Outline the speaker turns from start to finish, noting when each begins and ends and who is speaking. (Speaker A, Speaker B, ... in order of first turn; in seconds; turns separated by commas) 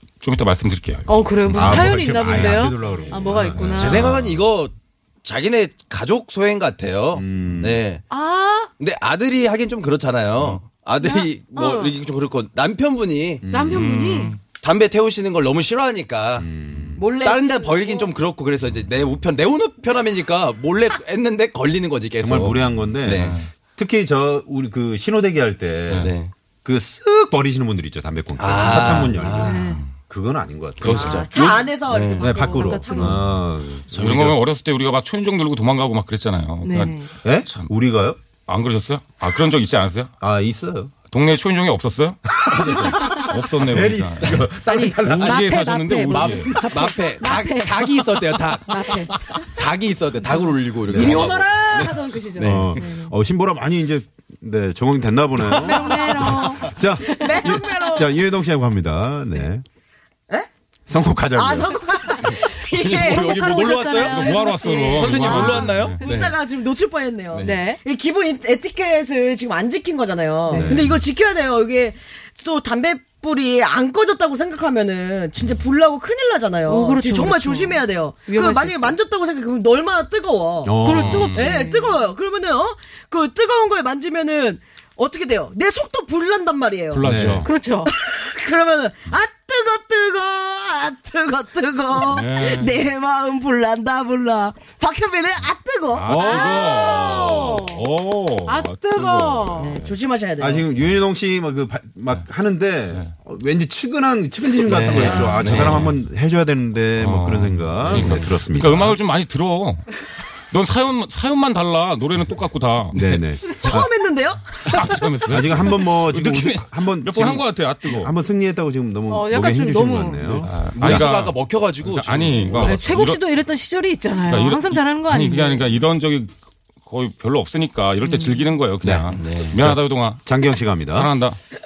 Speaker A: 0.2-2.7, Speaker B: 1.1-4.1, Speaker C: 1.5-4.4, Speaker A: 3.4-4.1, Speaker D: 3.7-8.0, Speaker C: 7.1-7.8, Speaker B: 8.1-8.7, Speaker D: 8.8-13.5, Speaker B: 11.0-11.9, Speaker C: 13.4-14.0, Speaker B: 13.5-14.3, Speaker A: 13.7-14.4, Speaker D: 14.5-16.5, Speaker C: 16.4-17.1, Speaker E: 17.0-18.1, Speaker D: 17.2-23.4, Speaker C: 22.2-31.7, Speaker A: 23.1-23.5, Speaker A: 25.9-26.1, Speaker D: 26.0-26.3, Speaker D: 28.4-29.6, Speaker A: 28.6-29.9, Speaker B: 29.4-29.8, Speaker D: 30.8-32.3, Speaker E: 30.9-33.2, Speaker C: 32.2-33.9, Speaker B: 32.2-33.2, Speaker A: 33.9-37.7, Speaker D: 33.9-34.4, Speaker B: 36.6-37.1, Speaker C: 37.2-38.2, Speaker A: 38.5-40.1, Speaker C: 40.2-40.9, Speaker A: 41.1-44.5, Speaker C: 42.3-45.5, Speaker D: 42.5-43.0, Speaker B: 44.6-49.4, Speaker A: 45.0-46.7, Speaker D: 46.1-52.8, Speaker B: 50.2-53.1, Speaker C: 50.9-51.4, Speaker C: 52.4-59.6, Speaker B: 55.5-57.8, Speaker E: 57.0-58.1, Speaker C: 60.9-61.7, Speaker E: 61.4-87.0, Speaker D: 62.5-64.3, Speaker B: 62.8-66.1, Speaker A: 64.1-66.0, Speaker D: 64.9-66.4, Speaker D: 67.3-67.6, Speaker B: 67.4-67.8, Speaker B: 70.5-70.8, Speaker C: 70.5-71.0, Speaker B: 76.7-79.0, Speaker C: 80.6-81.3, Speaker B: 80.8-82.0, Speaker A: 80.9-81.6, Speaker A: 86.9-87.5, Speaker C: 87.0-87.5, Speaker B: 87.4-87.9, Speaker E: 87.8-97.4, Speaker A: 92.0-92.8, Speaker A: 95.9-100.0, Speaker C: 96.1-96.5, Speaker B: 96.2-97.8, Speaker B: 98.4-99.8, Speaker D: 99.0-99.4, Speaker E: 99.6-100.7, Speaker C: 100.4-109.0, Speaker D: 104.6-105.9, Speaker A: 104.9-106.0, Speaker A: 107.0-113.2, Speaker C: 112.9-113.9, Speaker E: 113.5-115.0, Speaker A: 114.6-118.2, Speaker C: 115.3-120.7, Speaker B: 119.1-120.5, Speaker A: 120.4-123.2, Speaker D: 120.7-122.9, Speaker B: 122.6-125.7, Speaker A: 124.2-130.3, Speaker B: 128.0-128.5, Speaker C: 128.8-131.1, Speaker D: 129.1-129.6, Speaker A: 130.9-131.4